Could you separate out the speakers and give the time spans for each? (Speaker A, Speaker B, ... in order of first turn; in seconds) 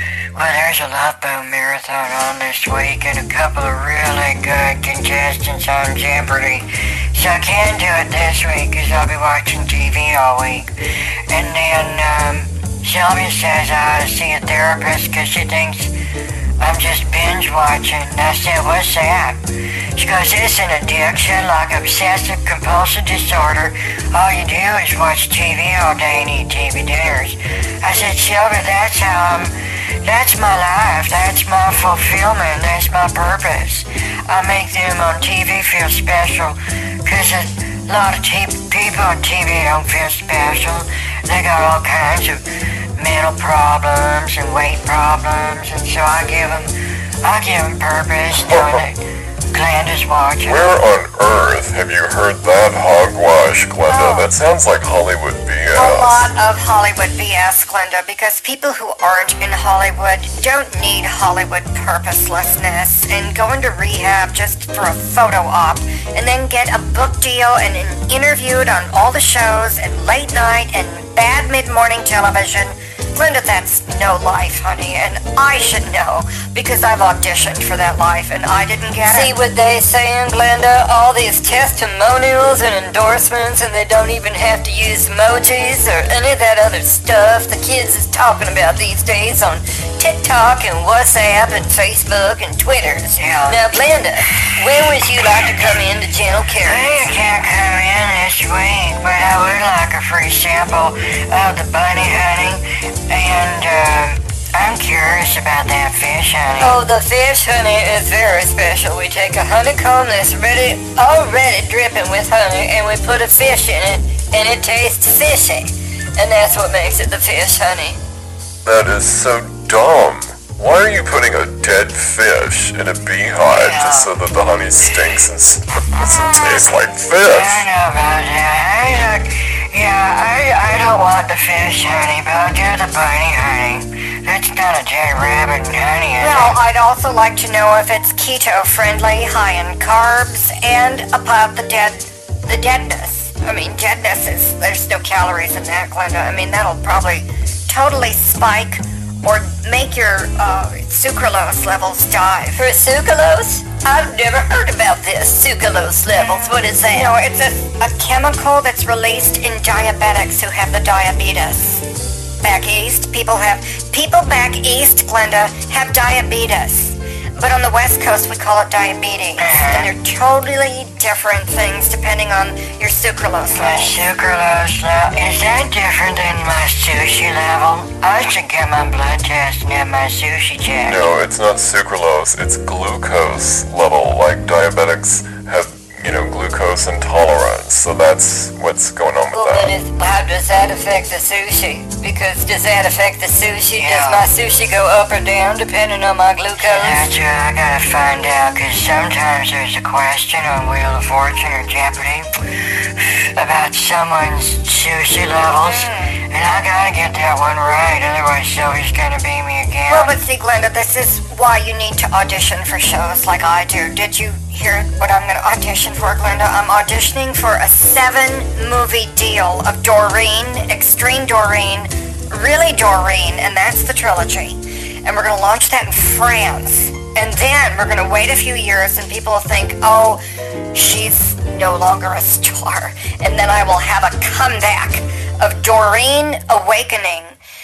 Speaker A: 0.3-10.8, 11.3-15.9, 16.6-42.4, 43.0-50.7, 93.2-93.6, 96.6-106.8, 123.5-124.1, 126.0-136.6, 169.4-169.9, 173.5-181.1, 193.8-194.2, 196.6-210.1
Speaker B: 48.4-48.8, 50.5-56.3, 118.6-127.6, 180.9-189.7
Speaker C: 53.9-54.3, 55.7-79.3, 136.2-152.6, 156.1-161.8, 162.4-174.0, 205.6-206.2, 209.9-230.2, 230.7-237.3
Speaker D: 79.1-96.9, 106.6-118.0, 152.6-157.1, 189.3-197.1